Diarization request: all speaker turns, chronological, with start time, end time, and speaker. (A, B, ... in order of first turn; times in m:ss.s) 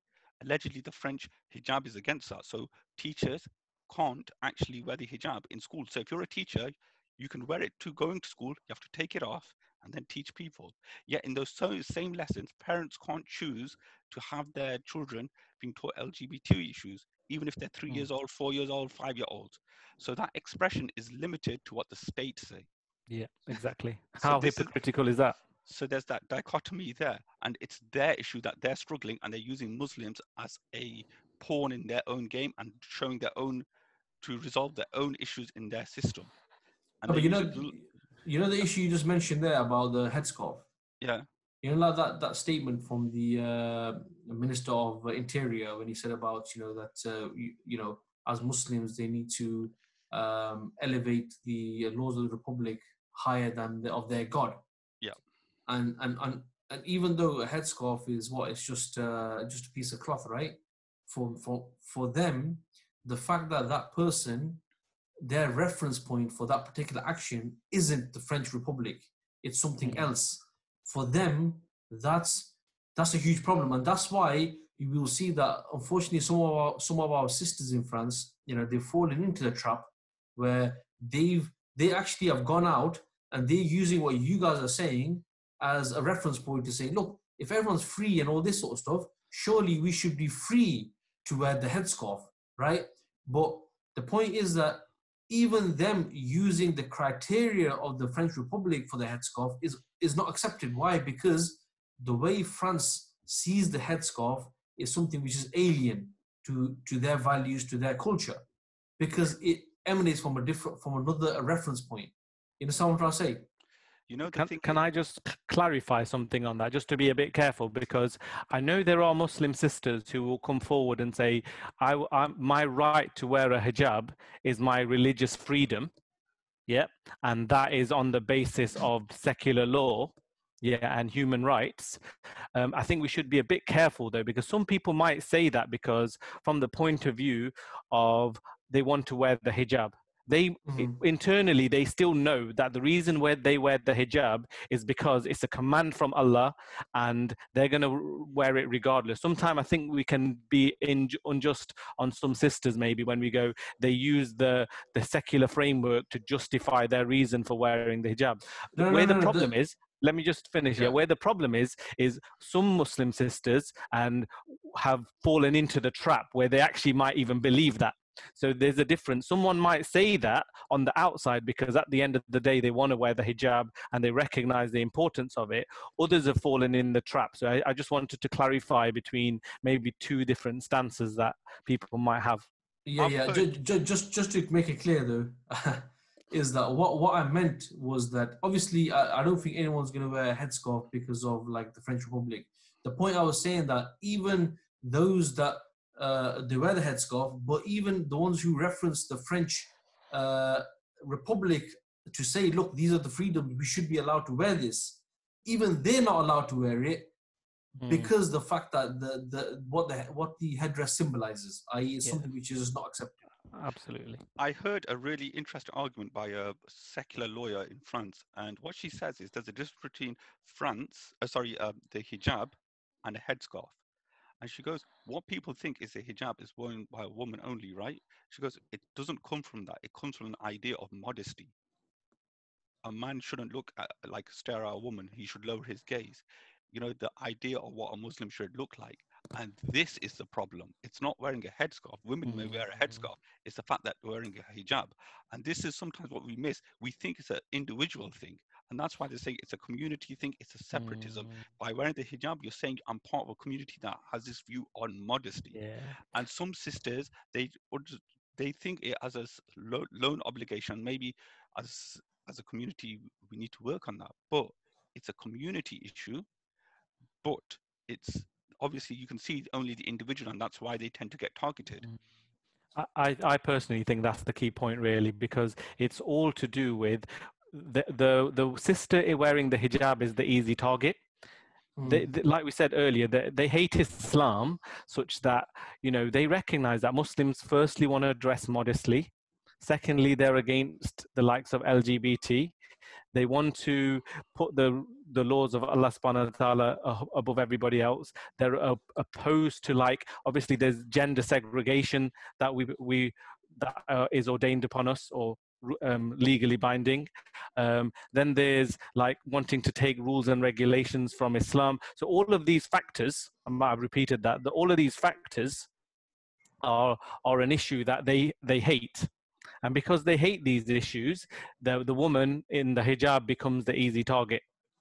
0:00.4-0:22.7 A
0:23.1-0:25.4 B
0:24.2-0:24.7 A
0:25.6-0:33.6 A
0:34.2-0:36.3 A
0:37.0-0:37.8 A
0:37.1-0:40.6 C
0:41.0-0:41.3 A
0:41.6-0:54.6 C
0:55.7-1:04.6 C
1:05.2-1:48.4 C
1:49.0-1:53.4 C
1:54.1-1:54.8 A
1:54.3-2:05.9 B
2:06.7-2:12.0 B
2:12.5-3:02.5 B
2:20.7-2:21.0 C
2:38.8-2:39.5 C
3:02.8-3:27.1 C
3:03.0-3:03.5 A
3:27.8-3:28.1 B
3:27.9-3:33.2 C
3:33.5-3:34.2 B
3:34.4-3:43.8 A
3:44.4-3:51.5 A
3:52.8-4:15.6 A
4:02.2-4:03.0 B
4:10.7-4:11.4 B
4:15.5-4:16.0 B
4:16.1-4:26.3 A
4:27.2-4:31.8 A
4:32.8-4:41.0 B
4:41.8-4:42.0 C
4:41.9-4:52.5 B
4:53.1-5:15.7 B
5:16.6-5:19.1 B
5:19.6-5:24.4 B